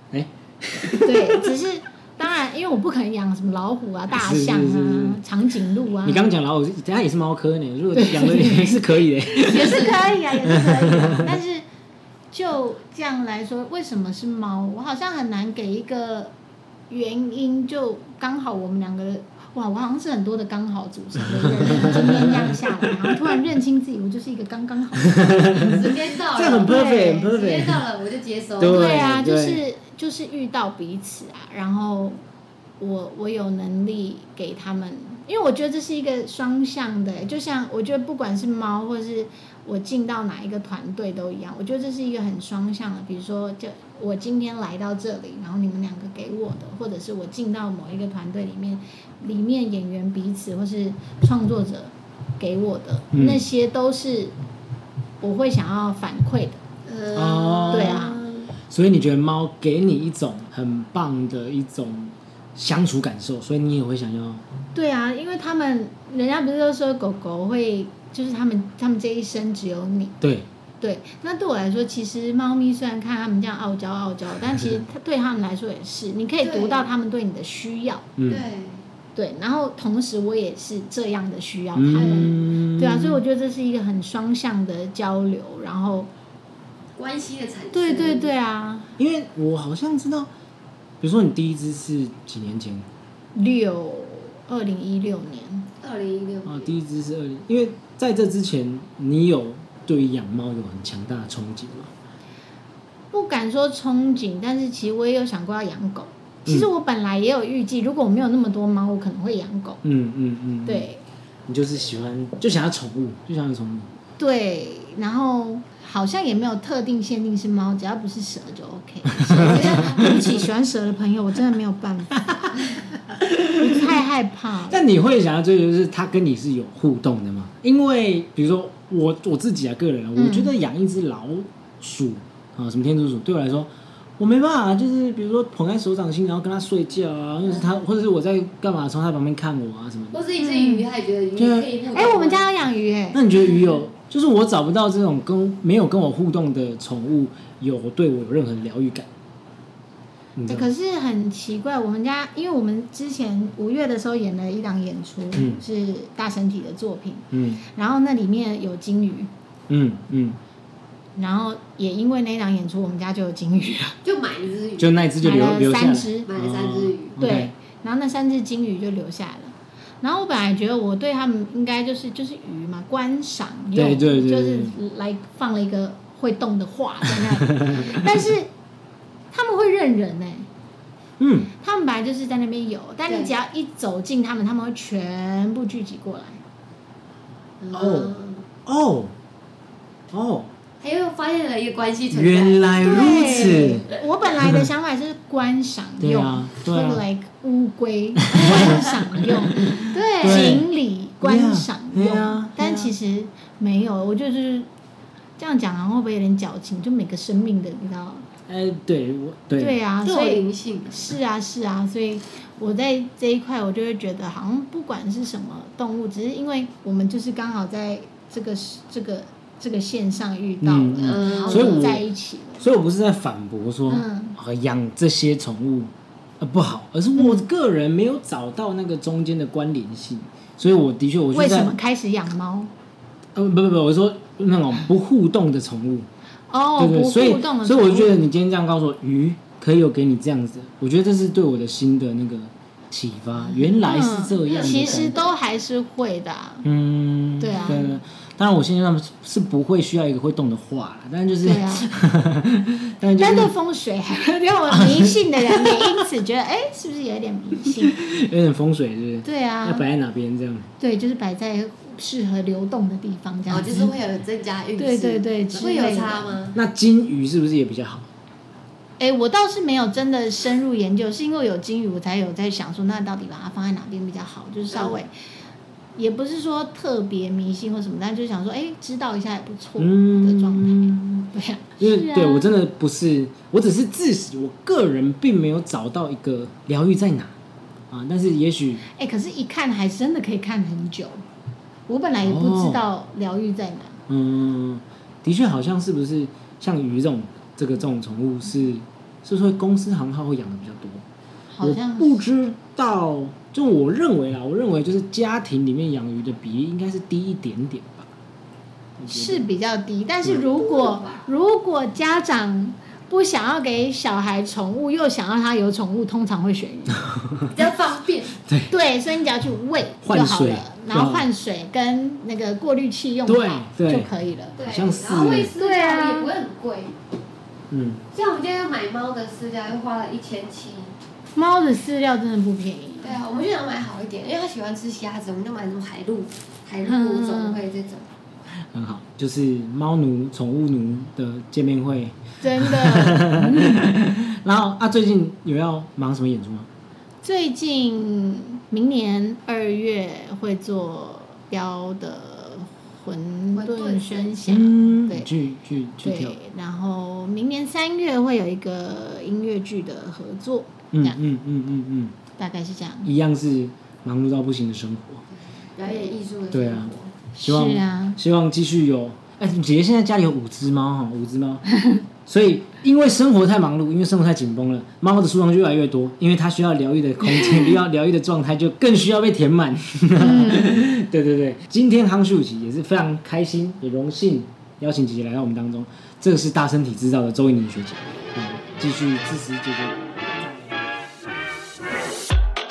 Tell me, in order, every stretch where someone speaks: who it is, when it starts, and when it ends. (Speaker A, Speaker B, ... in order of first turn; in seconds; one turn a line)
Speaker A: 0.1-1.5
Speaker B: 1.0-6.3
Speaker A: 4.1-5.2
Speaker A: 6.0-11.4
Speaker B: 7.9-11.6
Speaker B: 12.3-16.3
Speaker B: 16.9-25.7
Speaker A: 21.4-23.2
Speaker A: 25.0-27.8
Speaker C: 25.6-29.0
Speaker B: 26.6-27.3
Speaker A: 28.6-29.6
Speaker B: 28.6-32.2
Speaker B: 32.8-54.3
Speaker A: 53.1-53.4
Speaker B: 55.2-56.6
Speaker C: 56.9-58.5
Speaker A: 57.1-58.0
Speaker B: 57.7-58.2
Speaker A: 58.6-64.4
Speaker B: 64.7-70.2
Speaker A: 70.2-70.5
Speaker B: 70.8-78.1
Speaker C: 76.4-76.9
Speaker A: 78.2-78.5
Speaker C: 78.3-78.9
Speaker B: 79.2-86.1
Speaker A: 81.8-83.2
Speaker C: 81.9-82.4
Speaker C: 87.0-88.3
Speaker B: 87.7-88.9
Speaker A: 89.0-90.3
Speaker A: 91.0-92.9
Speaker B: 93.3-95.7
Speaker C: 95.8-96.7
Speaker A: 96.5-101.9
Speaker B: 103.1-109.8
Speaker A: 109.8-110.9
Speaker B: 110.7-111.0
Speaker A: 111.5-113.9
Speaker B: 114.2-122.5
Speaker A: 119.1-120.3
Speaker C: 119.4-120.5
Speaker A: 122.2-124.0
Speaker B: 123.5-124.8
Speaker A: 124.7-140.2
Speaker B: 130.2-130.5
Speaker C: 140.1-142.5
Speaker B: 140.4-140.9
Speaker A: 141.3-141.7
Speaker B: 141.9-143.2
Speaker A: 143.1-149.1
Speaker A: 150.4-150.7
Speaker B: 150.5-159.3
Speaker A: 155.3-155.6
Speaker A: 157.3-157.6
Speaker A: 159.7-160.4
Speaker B: 161.2-164.0
Speaker C: 164.0-165.6
Speaker A: 164.8-167.5
Speaker B: 165.2-166.3
Speaker C: 166.2-167.2
Speaker B: 167.2-178.5
Speaker A: 173.7-174.8
Speaker A: 177.2-178.0
Speaker B: 179.3-180.5
Speaker A: 181.2-181.5
Speaker B: 181.6-186.4
Speaker C: 187.6-188.5
Speaker A: 187.7-188.1
Speaker A: 188.7-189.1
Speaker A: 190.1-190.5
Speaker C: 190.8-194.0
Speaker A: 192.1-193.9
Speaker B: 192.8-204.7
Speaker A: 194.4-194.7
Speaker A: 196.0-197.0
Speaker A: 198.3-200.7
Speaker A: 201.2-202.9
Speaker B: 205.4-208.3
Speaker A: 208.5-209.8
Speaker B: 209.6-222.7
Speaker C: 210.0-211.2
Speaker A: 220.6-222.1
Speaker C: 221.0-222.0
Speaker A: 222.6-231.8
Speaker B: 223.9-224.4
Speaker B: 227.2-227.4
Speaker B: 231.3-232.7
Speaker A: 233.3-236.1
Speaker B: 236.5-238.2
Speaker A: 236.8-245.2
Speaker B: 243.8-246.7
Speaker C: 244.4-245.4
Speaker A: 246.6-253.5
Speaker B: 247.4-247.9
Speaker B: 251.4-251.9
Speaker B: 253.2-258.0
Speaker A: 254.7-256.0
Speaker A: 257.8-260.7
Speaker B: 259.2-259.9
Speaker B: 260.8-263.9
Speaker C: 263.5-266.6
Speaker B: 264.8-266.4
Speaker A: 266.5-268.1
Speaker B: 269.0-275.1
Speaker B: 276.0-282.6
Speaker A: 279.8-281.3
Speaker A: 281.8-287.4
Speaker A: 287.9-288.8
Speaker B: 288.9-291.2
Speaker B: 291.9-294.0
Speaker A: 292.2-292.8
Speaker A: 294.1-301.0
Speaker B: 301.5-302.2
Speaker A: 301.6-308.1
Speaker A: 309.0-309.4
Speaker B: 309.1-317.0
Speaker C: 310.4-311.3
Speaker A: 317.1-317.5
Speaker C: 317.5-318.4
Speaker A: 318.4-318.7
Speaker B: 318.7-324.6
Speaker A: 320.0-321.3
Speaker A: 323.3-324.1
Speaker C: 324.6-326.9
Speaker A: 324.6-325.5
Speaker B: 325.6-326.3
Speaker A: 327.7-328.0
Speaker C: 328.1-331.0
Speaker B: 331.4-333.2
Speaker C: 333.0-338.1
Speaker B: 336.8-337.6
Speaker A: 338.5-346.7
Speaker B: 342.4-343.8
Speaker B: 347.2-355.3
Speaker C: 353.6-354.6
Speaker A: 354.5-356.4
Speaker B: 356.0-361.2
Speaker A: 360.9-362.1
Speaker B: 362.4-363.1
Speaker A: 363.1-365.2
Speaker C: 365.8-367.1
Speaker B: 365.9-366.2
Speaker A: 366.5-371.6
Speaker B: 367.4-368.2
Speaker A: 372.3-390.8
Speaker B: 380.2-380.8